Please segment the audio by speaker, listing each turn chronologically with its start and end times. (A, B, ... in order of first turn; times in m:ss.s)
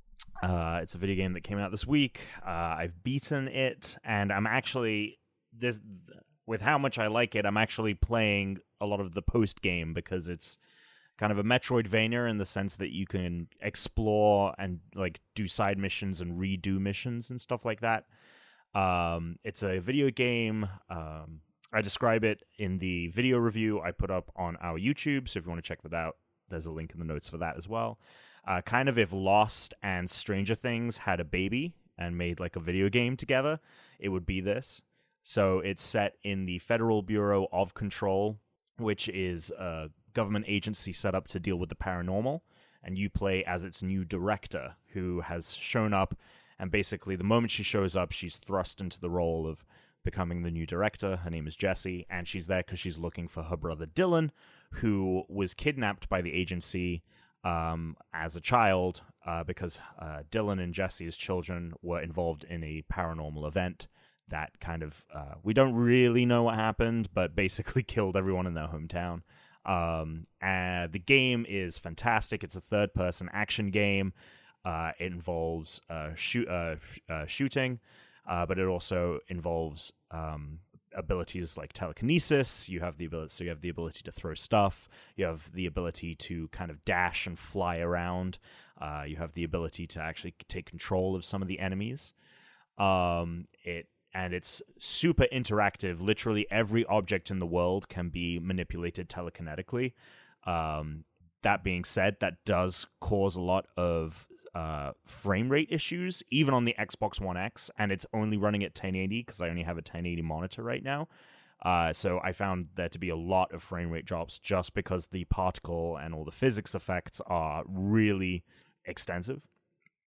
0:00.4-0:10.6 A
0:11.2-0:18.1 A
0:18.7-1:32.1 A
1:32.8-1:51.1 A
1:51.6-1:59.4 A